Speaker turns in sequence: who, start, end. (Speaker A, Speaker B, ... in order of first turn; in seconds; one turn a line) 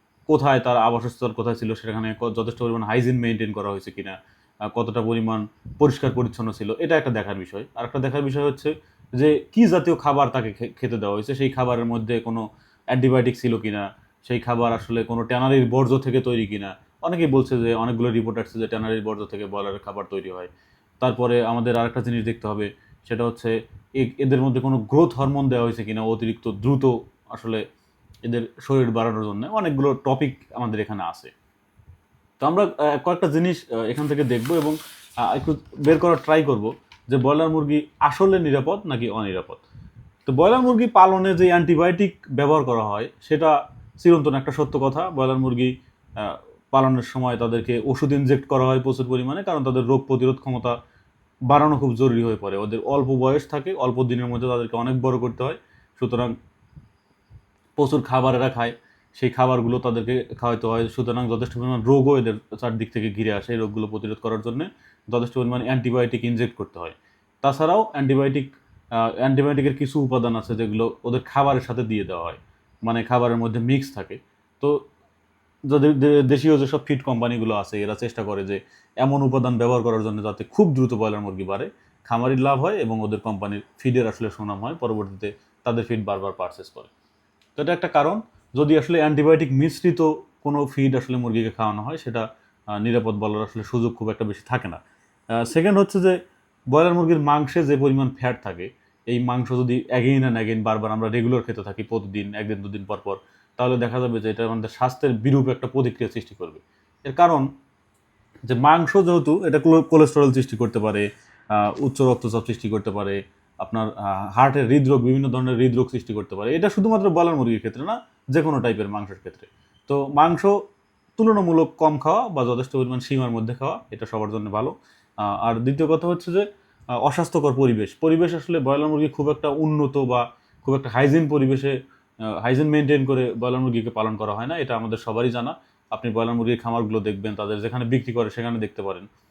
Speaker A: 0.3-4.2
Speaker A: 4.7-27.6
Speaker A: 28.2-31.3
Speaker A: 32.4-39.6
Speaker A: 40.3-50.8
Speaker A: 51.5-56.4
Speaker A: 57.8-74.8
Speaker A: 75.7-86.9
Speaker A: 87.6-92.2
Speaker A: 92.8-94.8
Speaker A: 95.4-96.2
Speaker A: 96.7-107.5
Speaker A: 108.5-120.6
Speaker A: 121.2-126.5
Speaker A: 127.0-131.8
Speaker A: 132.3-139.1